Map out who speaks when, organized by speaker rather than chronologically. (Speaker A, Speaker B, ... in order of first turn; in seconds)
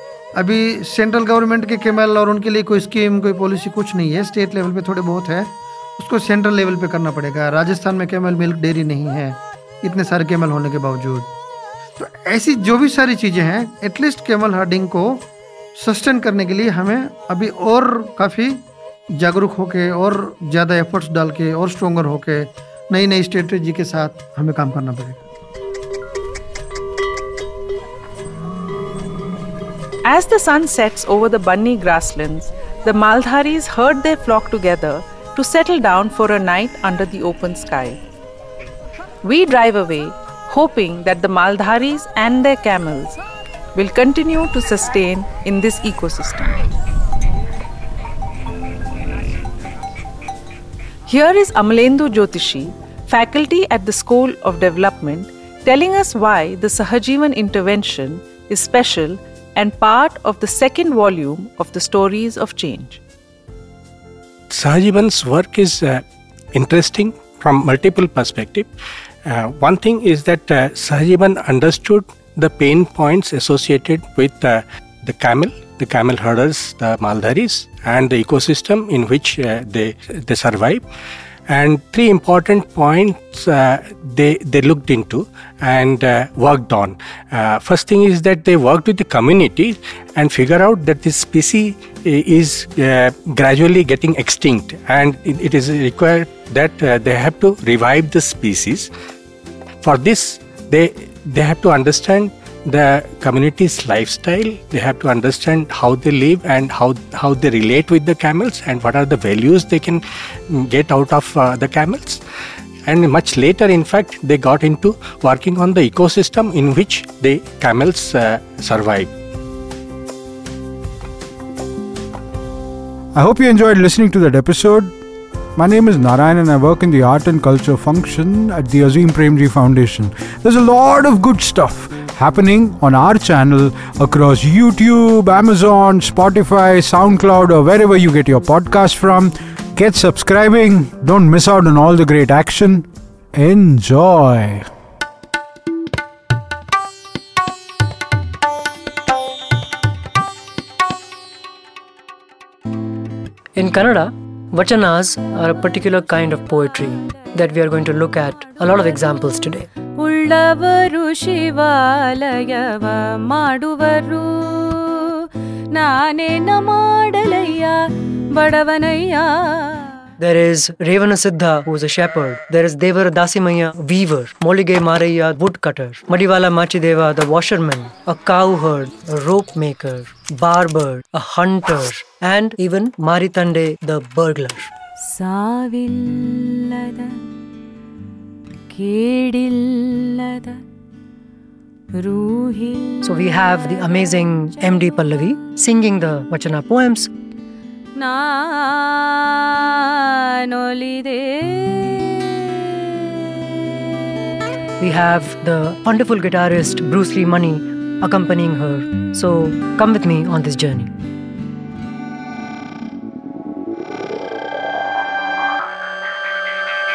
Speaker A: 0.3-11.3, 12.0-18.6, 19.1-25.2
Speaker B: 30.1-38.0, 39.2-43.2, 43.8-46.7, 51.1-63.0
Speaker C: 64.5-68.7, 69.2-80.8, 81.5-98.9, 99.8-112.2, 112.9-119.1
Speaker D: 123.2-124.9, 125.6-144.7
Speaker E: 153.6-159.7, 170.2-184.7, 193.0-197.1, 204.8-210.9
Speaker F: 160.0-169.9, 185.0-187.2, 188.7-190.6, 191.9-193.1, 198.0-202.3